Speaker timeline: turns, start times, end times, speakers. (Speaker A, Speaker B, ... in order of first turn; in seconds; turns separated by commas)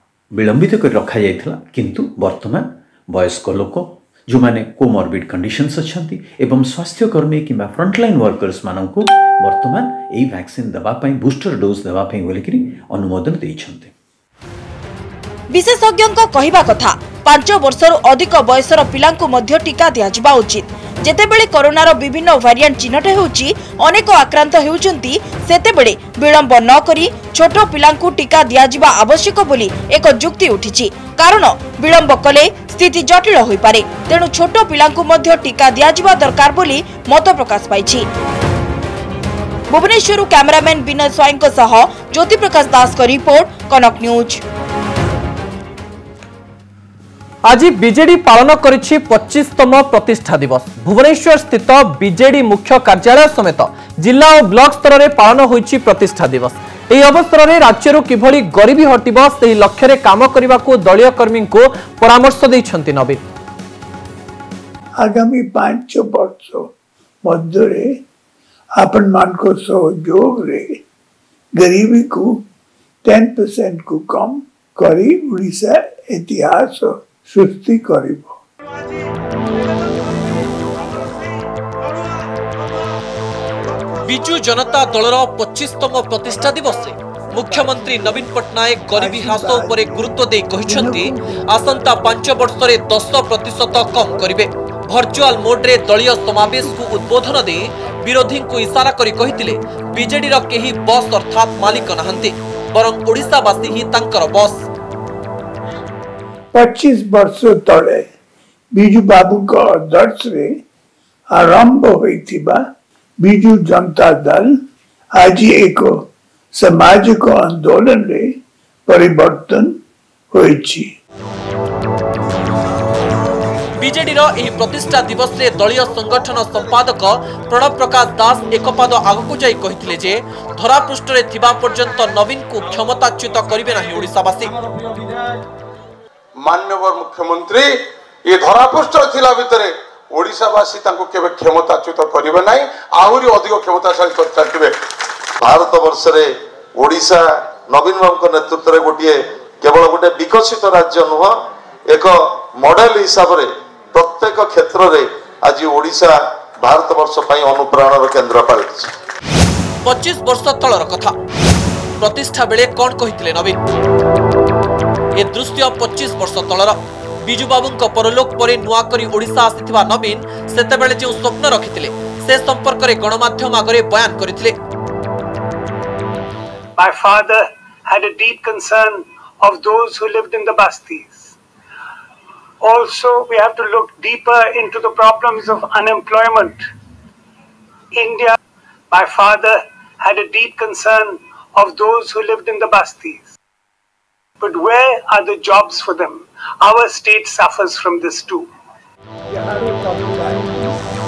Speaker A: 0.4-13.9, Speaker B: 15.5-38.1, Speaker B: 39.7-44.4, Speaker C: 47.5-63.2, Speaker D: 65.0-66.7, Speaker D: 67.3-67.9, Speaker D: 68.8-70.7, Speaker D: 71.6-72.4, Speaker D: 73.0-78.4, Speaker C: 84.0-104.7, Speaker D: 88.9-91.7, Speaker D: 106.5-108.1, Speaker D: 108.8-110.5, Speaker D: 111.4-112.6, Speaker D: 113.2-114.5, Speaker D: 115.2-115.9, Speaker D: 116.6-118.3, Speaker D: 118.9-119.7, Speaker D: 120.3-120.9, Speaker C: 123.8-134.5, Speaker E: 136.4-144.8, Speaker F: 145.4-151.4, Speaker F: 151.9-158.9, Speaker C: 159.8-161.1, Speaker C: 162.0-163.6, Speaker C: 165.2-174.6, Speaker G: 176.8-181.3, Speaker G: 182.6-186.7, Speaker G: 187.9-188.4, Speaker G: 188.9-193.3, Speaker G: 194.4-198.5, Speaker D: 199.3-200.7